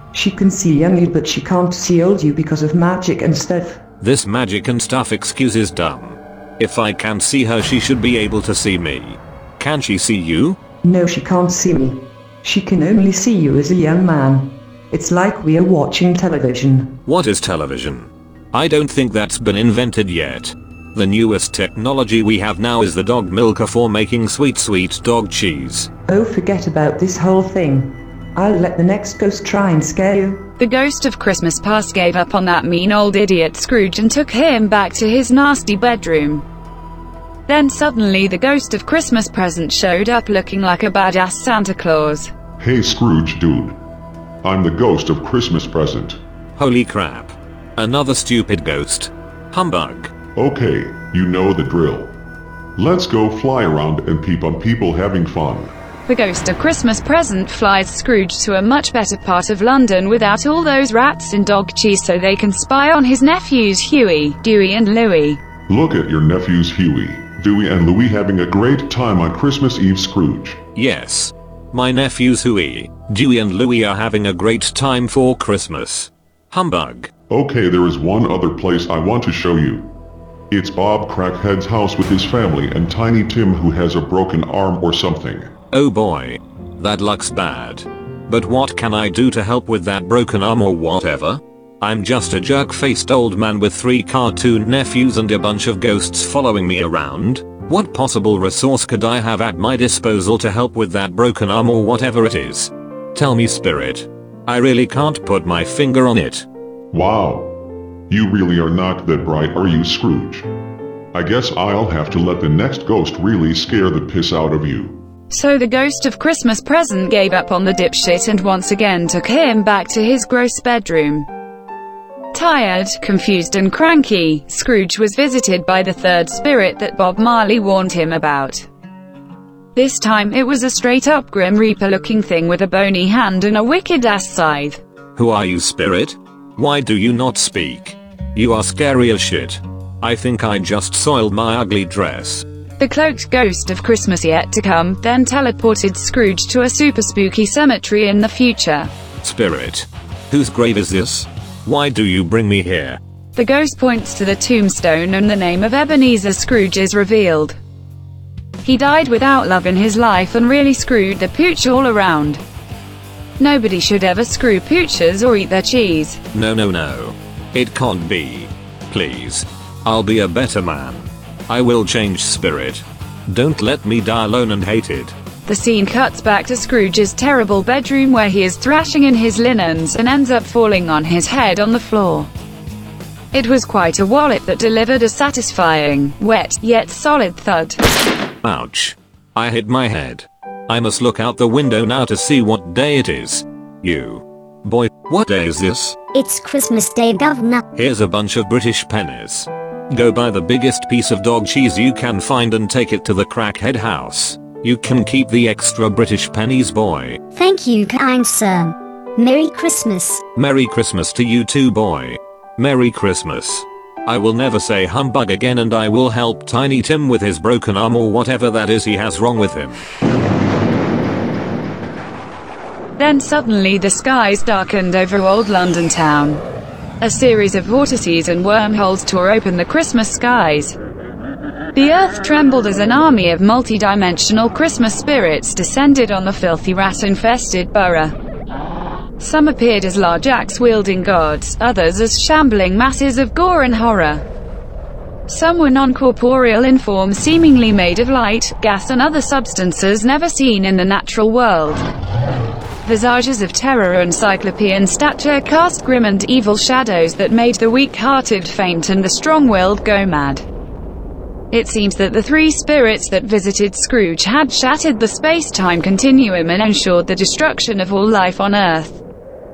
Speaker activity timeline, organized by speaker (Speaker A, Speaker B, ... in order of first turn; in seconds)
Speaker A: 0.1-3.8, 10.8-17.0, 26.1-30.5
Speaker B: 4.0-10.6, 17.0-25.9, 46.6-50.1, 70.7-77.1, 85.7-106.5, 135.2-142.4, 149.2-153.0, 166.3-175.1, 188.4-196.0, 197.7-207.2, 210.3-219.8
Speaker C: 30.6-36.4, 37.5-42.3, 56.1-65.4, 115.3-121.3, 122.3-128.7, 129.7-134.8, 142.8-148.9, 153.3-157.6, 158.6-162.4, 163.4-166.2, 175.4-182.3, 183.3-187.8, 223.0-226.4, 227.0-230.8, 231.7-238.1, 239.2-244.2, 245.3-251.8, 252.8-260.4, 261.5-269.0
Speaker D: 42.6-43.8, 44.4-46.2, 50.4-52.2, 52.8-55.7, 65.7-70.6, 77.3-80.0, 80.5-85.5, 106.9-107.5, 108.1-110.5, 111.1-115.0
Speaker E: 196.1-197.6, 207.3-210.2